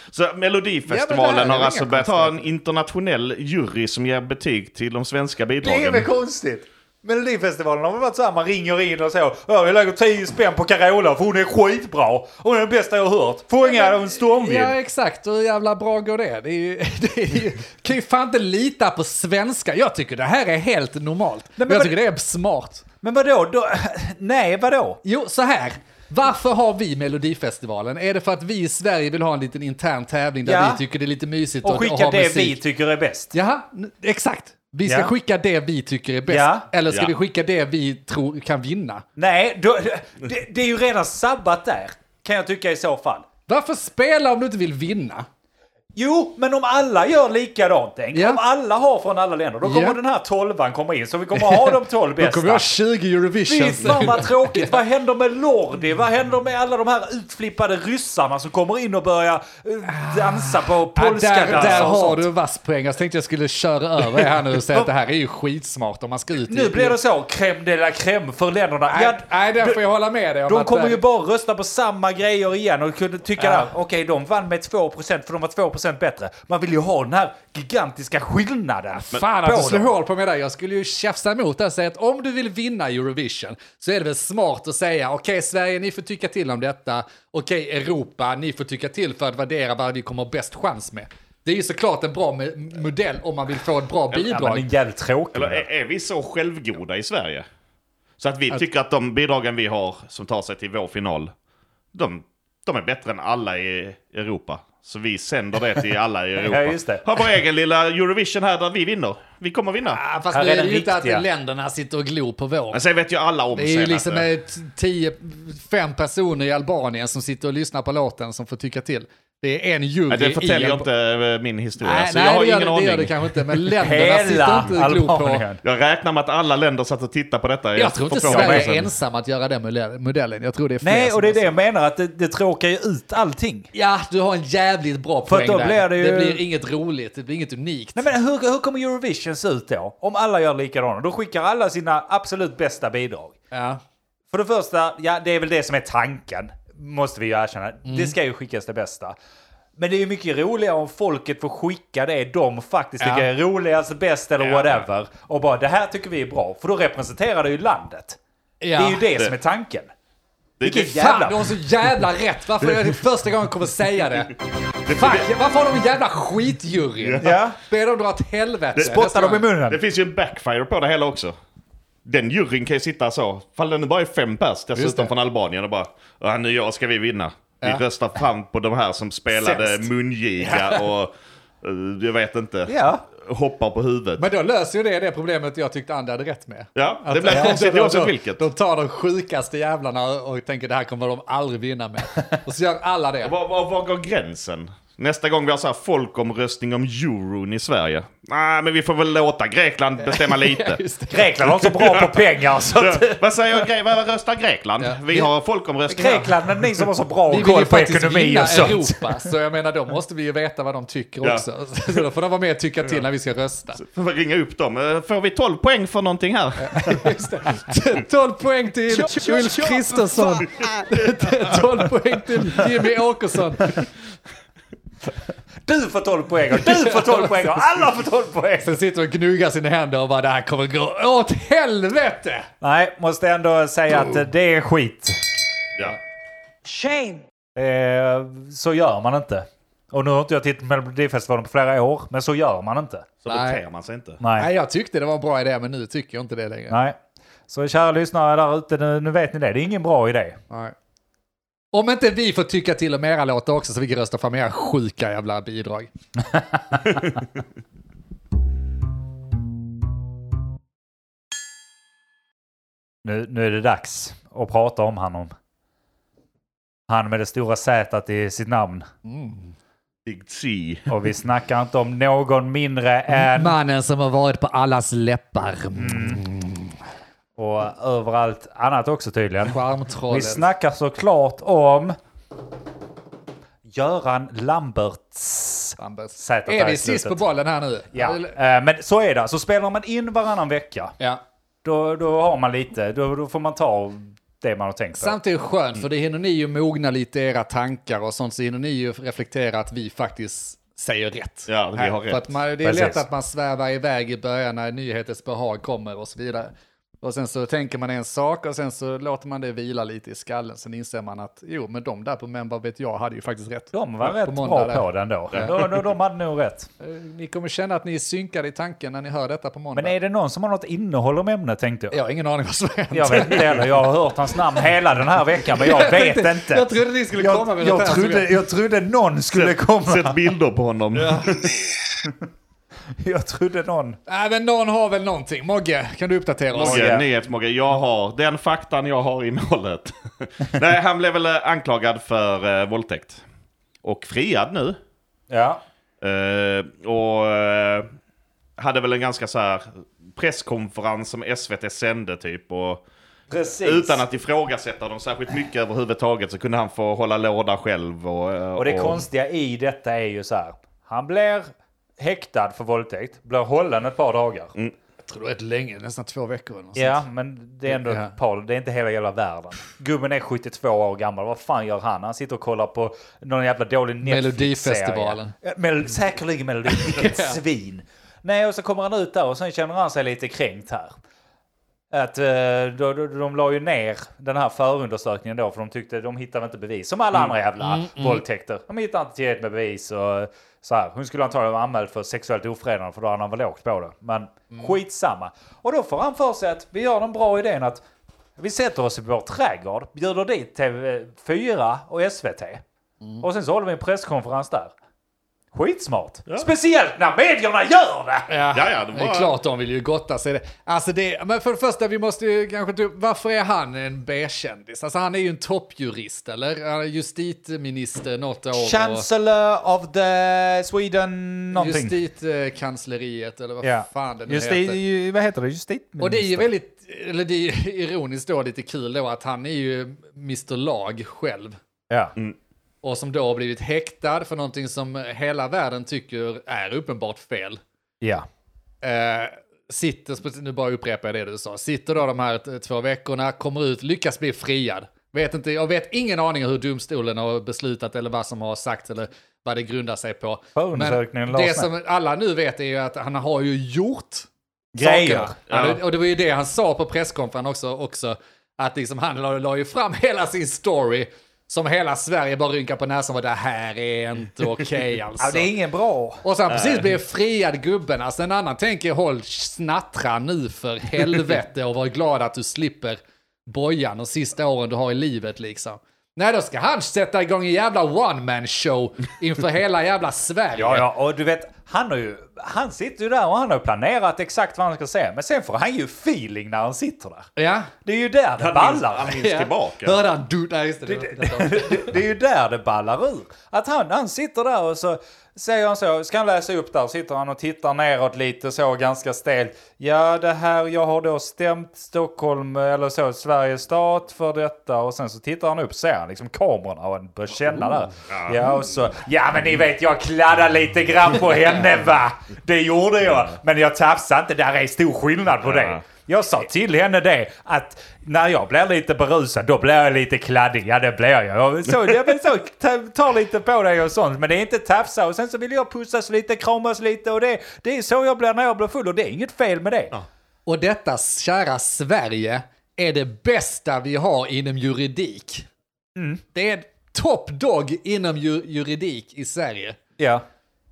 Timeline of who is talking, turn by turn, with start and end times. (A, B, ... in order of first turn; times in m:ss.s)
0:00.1-0:06.1 A
0:00.9-0:02.5 B
0:05.6-0:14.8 C
0:13.6-0:22.8 B
0:21.6-0:22.0 C
0:23.0-0:25.0 C
0:25.0-0:32.6 B
0:30.4-0:30.8 C
0:31.6-0:33.3 C
0:33.3-0:39.0 B
0:34.9-0:35.1 C
0:36.3-0:36.7 C
0:39.2-0:43.3 C
0:43.5-0:45.3 B
0:46.0-0:52.7 C
0:48.1-0:48.4 B
0:49.6-0:50.0 B
0:51.3-0:54.8 B
0:53.4-1:02.3 C
0:59.9-1:07.0 B
1:01.6-1:01.8 A
1:06.5-1:09.8 C
1:08.9-1:11.0 B
1:10.5-1:19.9 C
1:13.4-1:13.7 B
1:19.1-1:34.7 B
1:34.1-1:35.7 C
1:35.3-1:37.4 A
1:38.2-1:41.3 A
1:41.9-1:50.0 A
1:46.5-1:47.0 C
1:49.9-1:52.8 B
1:50.3-1:51.2 C
1:52.7-1:54.3 A
1:53.5-2:00.9 B
2:00.1-2:03.5 A
2:01.8-2:05.4 B
2:03.8-2:05.6 C
2:05.6-2:08.9 A
2:07.8-2:11.5 B
2:08.3-2:08.7 C
2:10.8-2:13.7 C
2:13.7-2:18.1 B
2:15.3-2:16.4 C
2:18.0-2:23.4 C
2:23.5-2:23.8 B
2:24.3-2:29.2 C
2:27.9-2:28.2 B
2:29.8-2:38.2 C
2:33.0-2:33.3 B
2:34.4-2:34.8 A
2:38.6-2:39.1 B
2:38.8-2:39.9 C
2:40.6-2:40.9 A
2:40.6-2:41.5 C
2:40.7-2:49.5 B
2:44.9-2:45.3 A
2:47.0-2:47.3 A
2:47.2-2:47.6 C
2:48.8-2:49.0 A
2:48.8-2:49.8 C
2:49.7-2:51.4 A
2:52.0-3:04.2 A
2:54.8-2:55.1 B
2:59.4-2:59.9 B
3:00.4-3:00.8 B
3:02.7-3:03.0 C
3:04.2-3:13.4 B
3:06.8-3:08.4 A
3:13.2-3:20.8 A
3:20.0-3:21.5 B
3:21.1-3:23.2 C
3:21.8-3:22.2 A
3:22.7-3:26.4 A
3:24.8-3:25.3 B
3:25.9-3:29.2 C
3:27.3-3:33.8 B
3:33.8-3:37.1 A
3:36.6-3:43.8 B
3:45.7-3:48.7 C
3:46.7-3:47.5 B
3:48.6-3:52.5 B
3:52.6-3:55.2 C
3:56.6-4:03.1 C
4:03.2-4:04.2 A
4:03.3-4:03.6 B
4:04.2-4:04.5 C
4:04.4-4:06.8 B
4:06.7-4:07.0 C
4:07.5-4:10.4 C
4:10.5-4:10.8 B
4:11.7-4:15.9 B
4:16.7-4:17.0 C
4:23.0-4:25.3 C
4:26.9-4:28.9 C
4:29.0-4:29.5 B
4:30.1-4:30.9 A
4:30.9-4:33.6 C
4:33.1-4:36.8 B
4:35.8-4:36.2 C
4:37.4-4:39.6 C
4:39.5-4:40.5 B
4:40.1-4:42.0 C
4:43.7-4:47.2 C
4:45.8-4:48.4 B
4:47.9-4:51.0 C
4:51.6-4:55.2 C
4:55.0-5:15.6 B
5:01.5-5:02.3 A
5:02.6-5:03.0 C
5:13.7-5:16.7 C
5:16.8-5:19.9 B
5:19.8-5:22.0 C
5:21.9-5:23.7 B
5:22.9-5:30.2 C
5:25.4-5:28.3 B
5:29.3-5:31.6 A
5:31.0-5:31.5 B
5:33.0-5:34.0 C
5:34.1-5:36.9 B
5:36.6-5:43.2 A
5:36.6-5:37.0 C
5:43.8-5:44.8 A
5:45.3-5:45.6 C
5:46.0-5:47.9 A
5:48.6-5:52.8 A
5:53.3-5:54.0 C
5:53.6-5:59.0 A
5:58.6-6:04.5 C
6:05.0-6:07.0 B
6:06.8-6:21.0 C
6:07.7-6:08.1 B
6:14.0-6:15.3 B
6:16.8-6:17.4 B
6:21.9-6:37.8 C
6:27.6-6:28.2 B
6:38.4-6:42.6 C
6:43.2-6:44.7 C
6:45.5-6:48.3 C
6:48.3-6:59.1 B
6:48.5-6:49.4 A
6:58.5-7:02.0 C
7:01.5-7:04.8 B
7:03.6-7:06.5 C
7:06.0-7:11.6 B
7:12.8-7:17.6 B
7:18.0-7:18.3 C
7:18.8-7:34.3 B
7:30.6-7:31.7 C
7:34.8-7:35.3 C
7:34.8-7:45.5 B
7:35.5-7:35.8 A
7:45.2-7:46.2 C
7:46.2-8:00.8 B
7:46.5-7:46.9 A
8:00.6-8:07.3 C
8:07.4-8:07.7 B
8:07.8-8:09.2 C
8:08.4-8:10.0 A
8:09.1-8:12.0 B
8:10.9-8:50.0 C
8:28.1-8:28.4 A
8:35.4-8:35.8 A
8:50.5-8:55.5 B
8:56.0-8:56.2 C
8:56.3-8:59.8 B
9:00.0-9:00.2 C